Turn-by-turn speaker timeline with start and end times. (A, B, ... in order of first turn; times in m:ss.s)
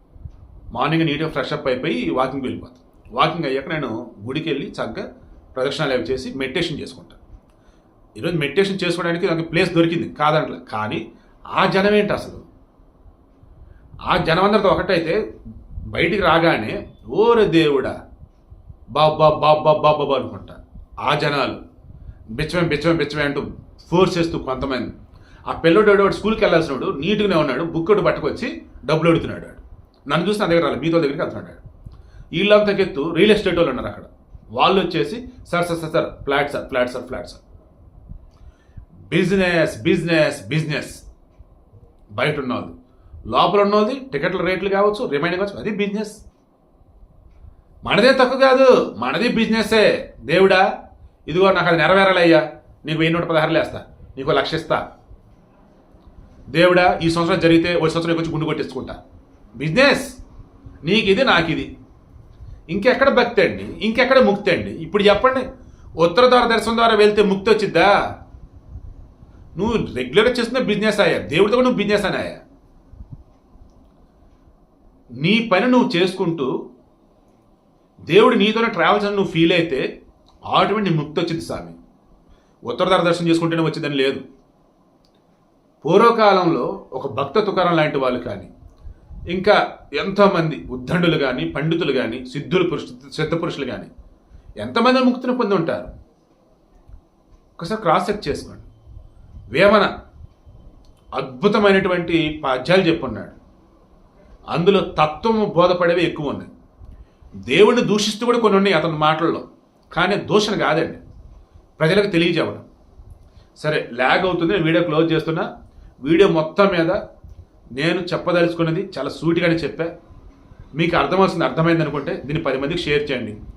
0:00.7-0:07.2 A
0:08.2-0:11.0 A
0:11.5-0:12.4 A
0:14.1-0:15.2 A
0:15.9-0:17.9 A
0:18.9-0:21.6 A
0:22.4-0:24.9 A
0:25.5-0:31.6 A
0:32.4-0:37.4 A
0:39.1-0:41.0 A
0:42.2-0:42.7 A
0:43.3-0:46.2 A
0:47.8-0:50.6 A
0:51.3-0:54.8 A
0:56.5-0:59.0 A
0:59.6-1:00.1 A
1:00.8-1:01.7 A
1:02.7-1:05.4 A
1:06.0-1:07.9 A
1:09.6-1:12.4 A
1:15.2-1:16.5 A
1:18.1-1:19.8 A
1:20.5-1:21.8 A
1:22.7-1:24.2 A
1:25.8-1:28.5 A
1:29.3-1:33.9 A
1:34.6-1:35.9 A
1:37.6-1:38.7 A
1:39.5-1:39.9 A
1:41.2-1:43.4 A
1:44.5-1:46.5 A
1:47.5-1:51.0 A
1:51.8-1:52.6 A
1:53.6-1:55.5 A
1:56.0-1:57.0 A
1:57.8-1:59.9 A
2:00.8-2:03.4 A